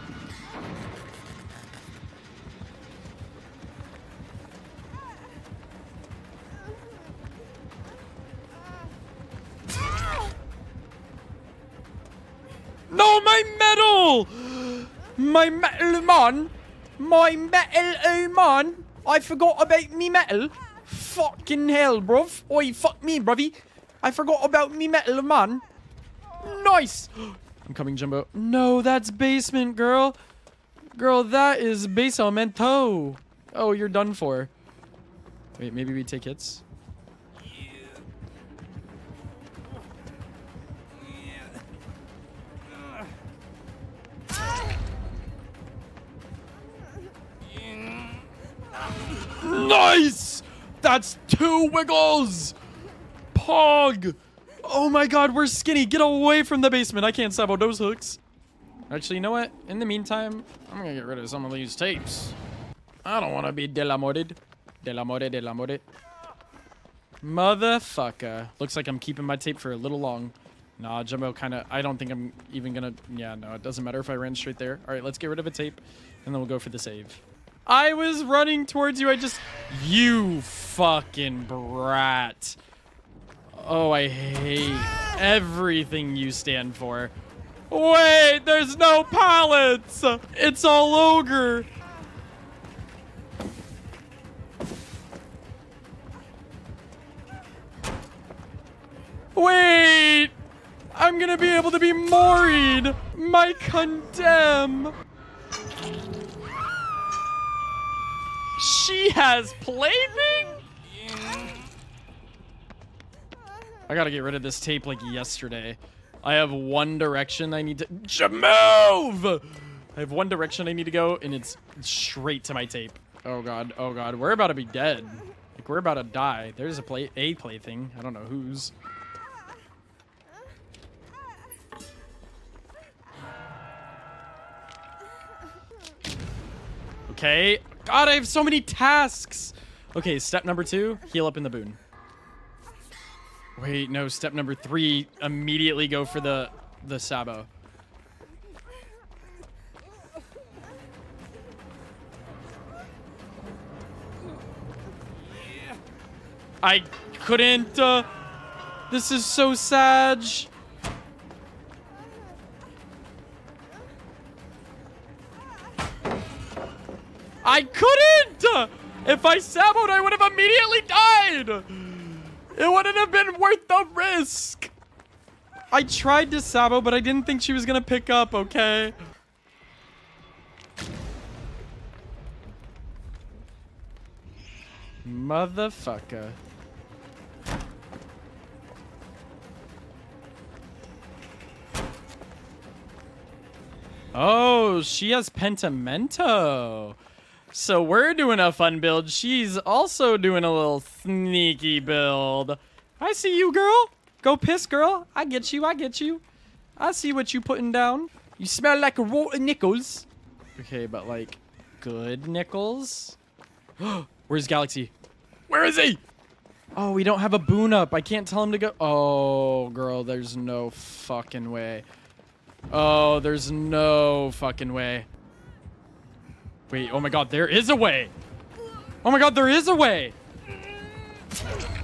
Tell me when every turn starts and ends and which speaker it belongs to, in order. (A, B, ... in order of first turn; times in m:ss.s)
0:12.9-0:25.6 A
0:26.4-0:30.2 A
0:31.0-0:34.5 A
0:35.6-0:36.6 A
0:49.4-0:52.6 A
0:53.3-0:58.2 A
0:58.9-1:02.4 A
1:03.0-1:05.8 A
1:07.2-1:22.6 A
1:23.5-1:27.1 A
1:27.7-1:31.7 A
1:39.4-1:40.3 A
1:40.9-1:44.9 A
1:48.6-1:50.6 A
1:53.9-2:08.7 A
2:17.1-2:21.8 A
2:23.6-2:27.5 A
2:36.6-2:38.1 A
2:38.9-2:40.5 A
2:47.4-2:54.7 A
2:55.7-2:59.0 A
3:05.0-3:06.4 A
3:14.1-3:17.0 A
3:17.5-3:26.2 A
3:26.8-3:33.2 A
3:33.8-3:34.9 A
3:35.5-3:36.0 A
3:36.8-3:41.8 A
3:42.7-3:45.1 A
3:46.7-3:48.1 A
3:49.0-3:50.2 A